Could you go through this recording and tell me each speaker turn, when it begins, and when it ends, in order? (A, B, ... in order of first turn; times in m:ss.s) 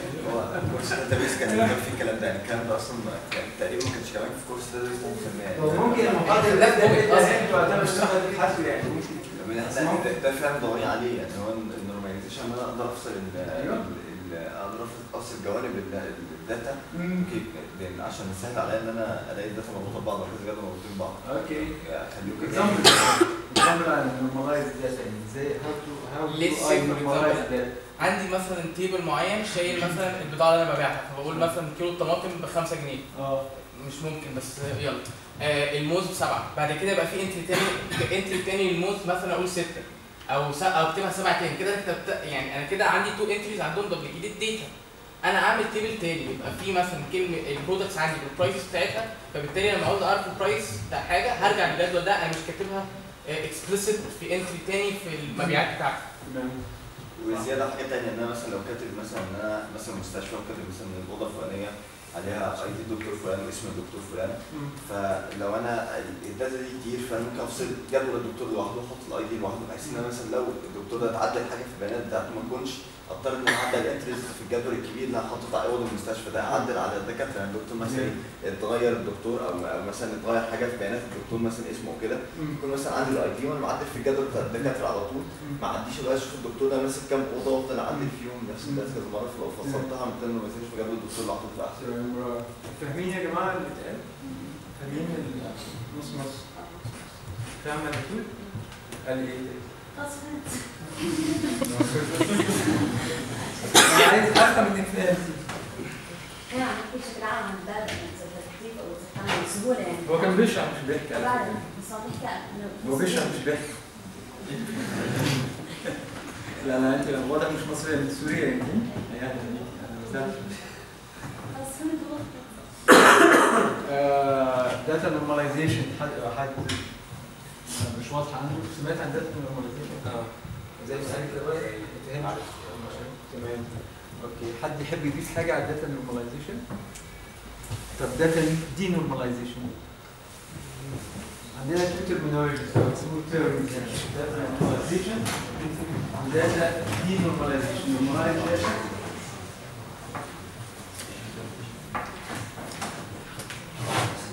0:00.2-0:06.7 A
0:05.5-0:10.1 B
0:06.2-0:08.4 C
0:09.3-0:23.2 A
0:13.4-0:13.8 B
0:16.9-0:17.3 B
0:21.2-0:28.0 B
0:26.2-0:56.0 C
0:31.3-0:31.5 B
0:33.1-0:33.4 B
0:55.3-0:57.5 B
0:57.1-1:31.9 A
1:04.5-1:04.8 B
1:09.8-1:10.1 B
1:17.8-1:18.1 B
1:22.3-1:22.6 B
1:24.5-1:25.6 B
1:27.9-1:29.9 B
1:31.8-1:36.6 B
1:34.2-1:34.9 D
1:36.4-1:37.5 D
1:37.5-1:40.0 B
1:38.4-1:38.6 D
1:39.9-1:41.5 D
1:41.6-1:42.8 B
1:43.4-1:43.7 D
1:43.8-1:45.7 B
1:46.5-1:50.5 D
1:50.0-1:51.7 B
1:51.1-1:54.4 D
1:52.8-1:54.1 B
1:56.6-2:01.0 B
1:58.8-2:00.9 D
2:01.5-2:02.9 D
2:03.8-2:16.9 B
2:10.8-2:13.1 A
2:17.9-2:19.9 B
2:21.5-2:28.9 B
2:28.4-2:29.2 D